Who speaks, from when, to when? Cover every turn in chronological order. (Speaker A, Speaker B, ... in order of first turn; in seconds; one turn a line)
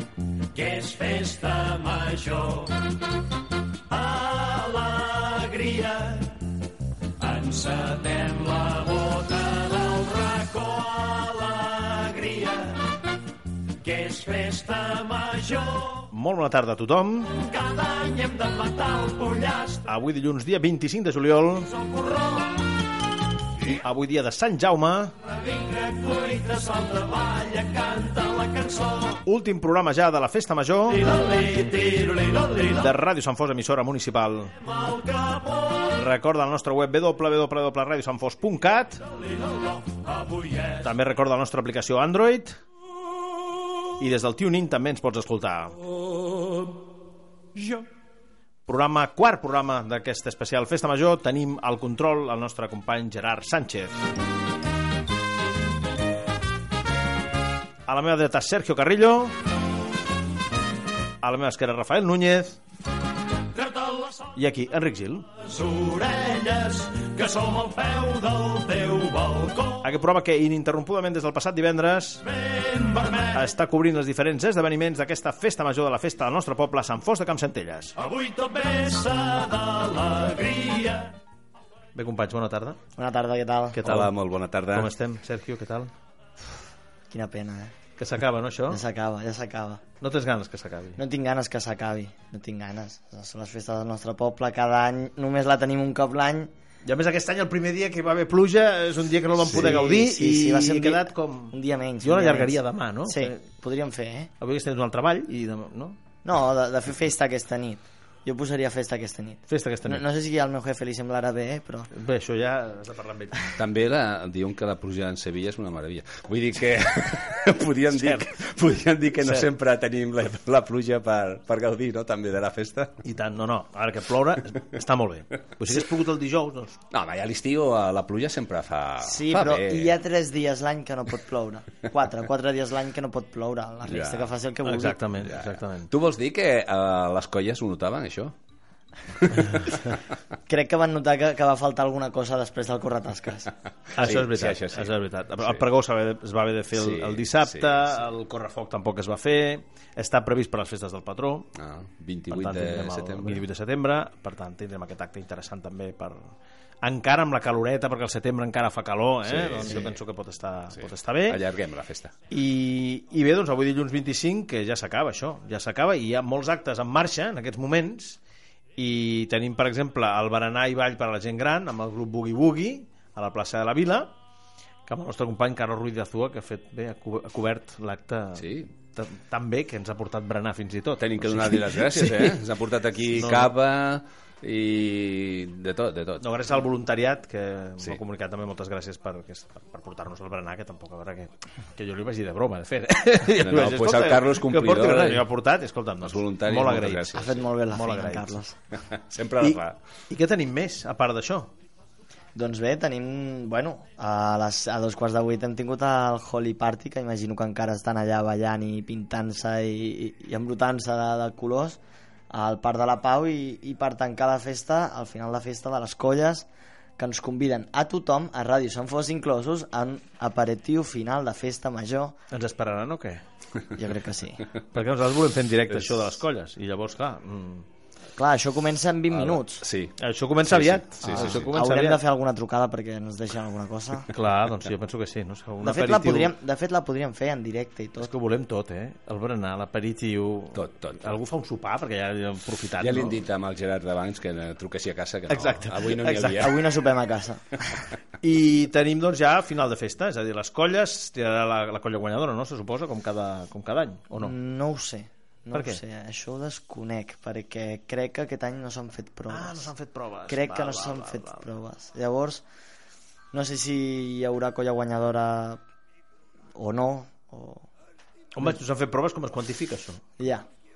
Speaker A: 0.5-2.7
Speaker A: 3.9-6.3
Speaker A: 7.2-12.8
Speaker A: 13.8-16.1
Speaker B: 16.1-17.3
Speaker A: 17.3-19.8
Speaker B: 19.9-21.7
Speaker A: 21.7-22.5
Speaker B: 23.8-25.1
Speaker A: 25.2-29.2
Speaker B: 29.2-31.0
Speaker A: 30.9-32.9
Speaker B: 32.8-34.5
Speaker A: 34.6-35.9
Speaker B: 35.9-39.0
Speaker A: 39.2-40.9
Speaker B: 40.8-42.6
Speaker B: 44.0-45.8
Speaker B: 48.7-54.0
Speaker B: 57.9-59.3
Speaker B: 61.2-62.6
Speaker A: 63.5-64.3
Speaker B: 64.3-65.3
Speaker A: 65.4-69.8
Speaker B: 69.8-72.2
Speaker A: 72.3-73.5
Speaker B: 73.3-78.0
Speaker A: 78.0-81.1
Speaker B: 82.0-82.8
Speaker C: 83.0-83.8
Speaker B: 83.7-84.2
Speaker D: 83.8-84.9
Speaker B: 84.7-85.9
Speaker C: 87.1-87.7
Speaker B: 88.0-88.8
Speaker C: 88.7-89.8
Speaker B: 90.0-91.0
Speaker C: 91.0-96.5
Speaker B: 96.8-103.4
Speaker C: 99.5-104.3
Speaker B: 104.4-106.0
Speaker C: 106.2-111.9
Speaker B: 109.5-110.0
Speaker B: 111.9-113.5
Speaker D: 113.6-122.9
Speaker B: 117.9-118.4
Speaker B: 119.2-119.5
Speaker B: 123.0-126.8
Speaker D: 126.9-130.0
Speaker C: 129.0-135.0
Speaker D: 133.9-134.3
Speaker B: 134.6-135.9
Speaker D: 135.2-138.3
Speaker D: 139.3-139.7
Speaker C: 140.5-143.5
Speaker B: 144.0-151.5
Speaker D: 144.0-145.6
Speaker D: 146.7-147.9
Speaker D: 151.6-153.4
Speaker B: 152.3-161.4
Speaker D: 159.2-159.9
Speaker D: 160.8-162.1
Speaker B: 162.3-168.2
Speaker B: 168.8-174.1
Speaker B: 174.9-182.4
Speaker D: 178.4-178.7
Speaker D: 181.0-186.2
Speaker B: 183.2-183.5
Speaker B: 186.2-198.4
Speaker D: 193.4-195.3
Speaker D: 196.0-197.4
Speaker C: 197.1-198.6
Speaker D: 198.9-199.7
Speaker B: 199.4-201.5
Speaker C: 202.3-216.5
Speaker C: 217.0-222.2
Speaker B: 222.3-223.2
Speaker C: 223.8-224.4
Speaker B: 224.7-227.7
Speaker C: 228.2-229.7
Speaker D: 229.1-231.5
Speaker B: 230.0-232.0
Speaker C: 231.1-234.1
Speaker B: 234.1-236.3
Speaker C: 235.6-238.1
Speaker B: 238.0-243.2
Speaker D: 240.6-241.2
Speaker D: 242.8-246.6
Speaker B: 245.3-246.5
Speaker C: 246.4-247.4
Speaker B: 248.2-254.3
Speaker C: 254.2-259.7
Speaker B: 255.5-255.8
Speaker B: 259.3-261.5
Speaker C: 260.3-262.4
Speaker C: 263.3-265.6
Speaker C: 266.6-267.7
Speaker B: 268.4-270.0
Speaker C: 270.2-270.5